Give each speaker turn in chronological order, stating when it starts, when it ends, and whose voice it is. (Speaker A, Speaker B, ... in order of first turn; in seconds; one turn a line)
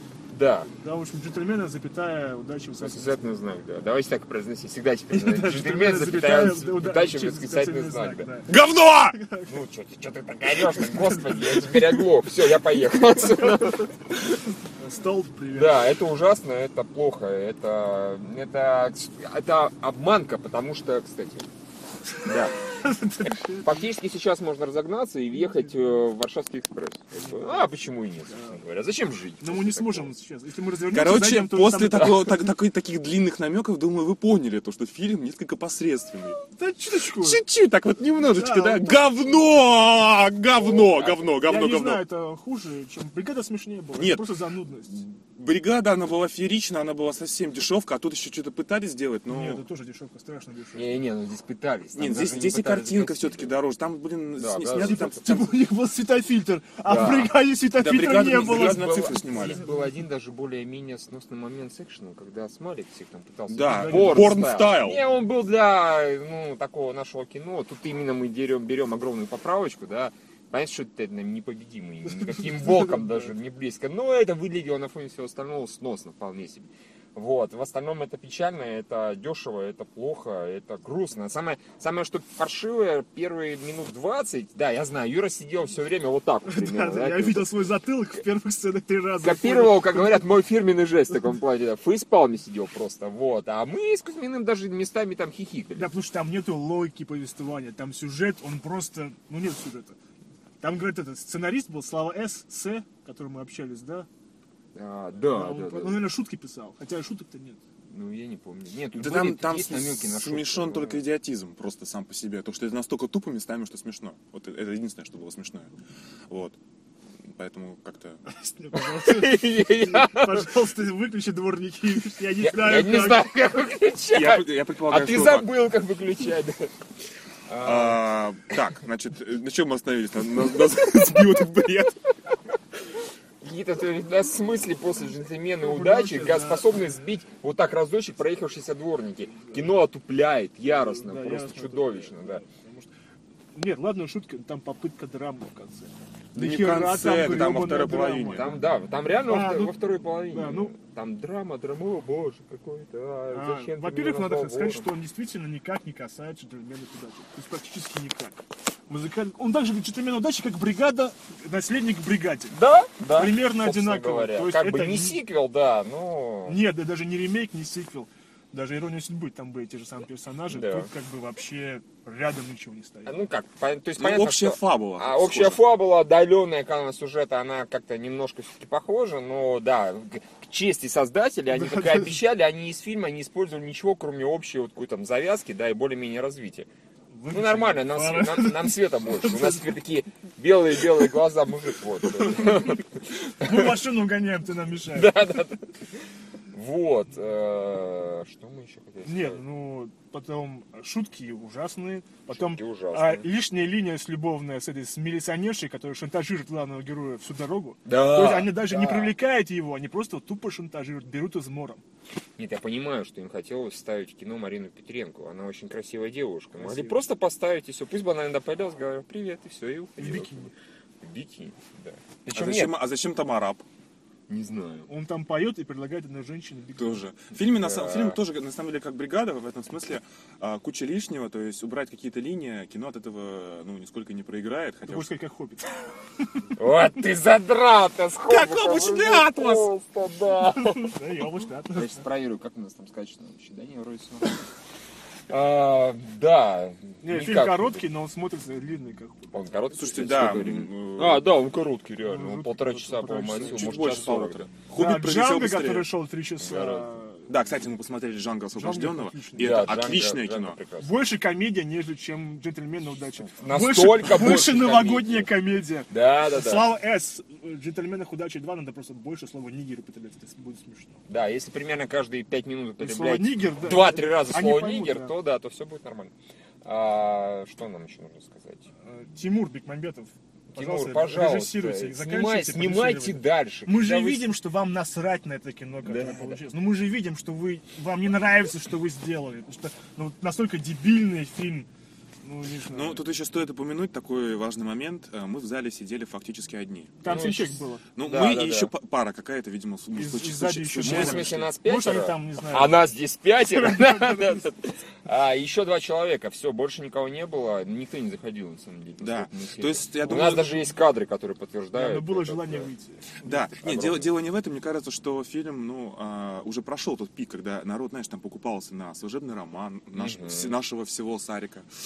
Speaker A: 0.3-0.7
Speaker B: 0.7-3.2
Speaker A: 2.8-8.3
Speaker B: 5.1-8.5
Speaker C: 8.5-9.2
Speaker B: 9.1-9.6
Speaker A: 9.5-13.9
Speaker B: 10.6-11.8
Speaker B: 14.7-16.0
Speaker A: 15.5-21.5
Speaker A: 22.2-22.6
Speaker B: 22.8-23.9
Speaker A: 23.6-30.1
Speaker B: 25.3-25.8
Speaker B: 27.2-28.6
Speaker B: 29.4-32.2
Speaker C: 30.9-36.4
Speaker B: 36.5-37.4
Speaker C: 37.0-42.0
Speaker B: 38.3-39.0
Speaker A: 40.5-41.4
Speaker B: 41.4-45.0
Speaker C: 44.0-44.3
Speaker C: 45.3-49.6
Speaker B: 49.3-51.0
Speaker A: 50.8-53.5
Speaker C: 51.9-55.6
Speaker A: 54.4-55.2
Speaker B: 54.8-59.5
Speaker A: 56.8-57.3
Speaker C: 57.8-59.7
Speaker A: 58.3-87.5
Speaker C: 63.5-65.0
Speaker B: 63.7-64.4
Speaker B: 72.0-73.3
Speaker B: 86.5-90.3
Speaker A: 89.2-95.9
Speaker B: 95.8-100.0
Speaker B: 100.6-104.1
Speaker A: 104.8-106.1
Speaker B: 105.3-107.6
Speaker A: 107.9-111.0
Speaker C: 108.9-115.7
Speaker C: 116.3-116.6
Speaker C: 117.3-118.2
Speaker B: 118.3-123.2
Speaker A: 118.7-120.5
Speaker A: 122.2-126.7
Speaker C: 124.1-125.5
Speaker A: 127.5-128.0
Speaker C: 127.6-132.0
Speaker A: 133.4-142.4
Speaker B: 135.6-136.9
Speaker B: 139.4-139.7
Speaker B: 140.7-142.9
Speaker B: 143.6-148.5
Speaker C: 146.3-148.5
Speaker A: 148.3-154.9
Speaker B: 149.2-149.8
Speaker B: 150.3-150.8
Speaker B: 153.3-162.6
Speaker A: 162.5-166.6
Speaker B: 163.1-165.2
Speaker B: 166.5-173.2
Speaker A: 170.5-170.9
Speaker A: 173.1-186.7
Speaker C: 174.0-175.6
Speaker B: 181.5-182.2
Speaker B: 187.1-189.7
Speaker A: 187.3-192.9
Speaker B: 193.4-195.2
Speaker A: 193.4-193.7
Speaker A: 194.9-195.7
Speaker A: 196.5-199.4
Speaker B: 199.1-211.8
Speaker A: 202.3-203.3
Speaker A: 207.9-209.2
Speaker A: 212.4-222.7
Speaker B: 216.6-217.1
Speaker B: 220.0-220.5
Speaker C: 222.3-223.7
Speaker A: 224.3-224.9
Speaker B: 224.9-227.1
Speaker C: 226.8-235.1
Speaker A: 227.3-228.2
Speaker B: 234.8-235.8
Speaker A: 236.6-240.9
Speaker C: 238.3-239.7
Speaker B: 240.6-242.0
Speaker A: 241.7-244.4
Speaker A: 245.3-247.8
Speaker B: 247.0-249.4
Speaker A: 249.3-254.5
Speaker C: 249.8-251.3
Speaker B: 252.0-253.8
Speaker C: 253.4-255.9
Speaker B: 254.8-257.4
Speaker A: 256.4-257.0
Speaker C: 257.3-260.6
Speaker B: 258.5-259.7
Speaker A: 259.4-260.9
Speaker B: 260.8-271.0
Speaker A: 263.2-265.3
Speaker A: 265.9-266.7
Speaker A: 271.1-278.7
Speaker B: 272.8-275.1
Speaker B: 278.8-291.7
Speaker A: 280.5-284.3
Speaker A: 285.8-286.4
Speaker B: 292.2-293.0
Speaker C: 292.7-297.0
Speaker B: 297.0-297.8
Speaker A: 297.1-298.7
Speaker C: 298.0-301.5
Speaker B: 299.9-302.8
Speaker A: 300.8-312.7
Speaker B: 303.4-304.5
Speaker C: 309.0-310.6
Speaker B: 310.3-310.6
Speaker B: 311.7-313.9
Speaker C: 313.2-321.7
Speaker A: 313.6-314.1
Speaker A: 319.9-320.6